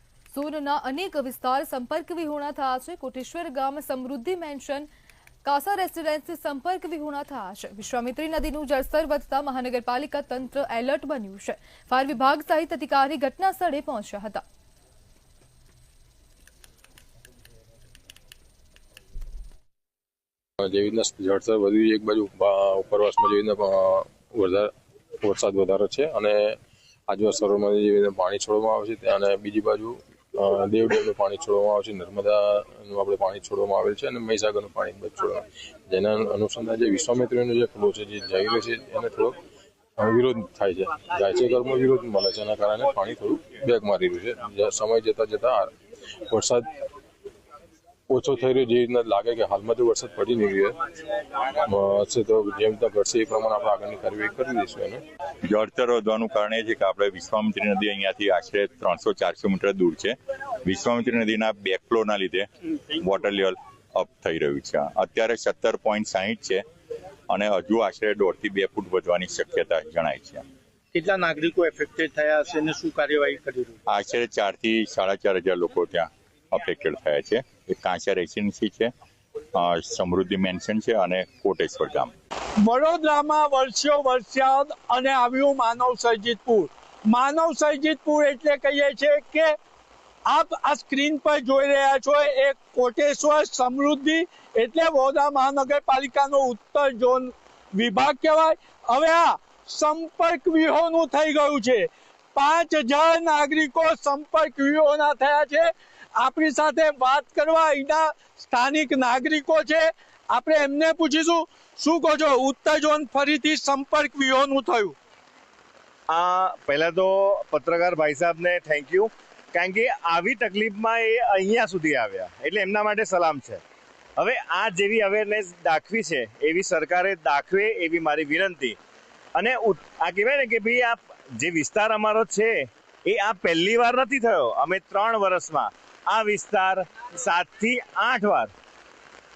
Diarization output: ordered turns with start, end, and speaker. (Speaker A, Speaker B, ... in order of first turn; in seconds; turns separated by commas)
Speaker A: 0.3-4.9, Speaker A: 5.4-14.4, Speaker B: 20.6-26.6, Speaker B: 27.1-39.4, Speaker B: 40.0-45.7, Speaker B: 46.3-46.6, Speaker B: 48.1-50.8, Speaker B: 51.6-55.0, Speaker C: 55.5-62.5, Speaker C: 63.1-66.6, Speaker C: 67.3-70.4, Speaker D: 70.9-73.7, Speaker C: 73.9-78.9, Speaker C: 79.6-82.1, Speaker D: 82.6-89.5, Speaker D: 90.3-114.9, Speaker E: 116.1-123.6, Speaker E: 124.2-128.8, Speaker E: 129.3-138.5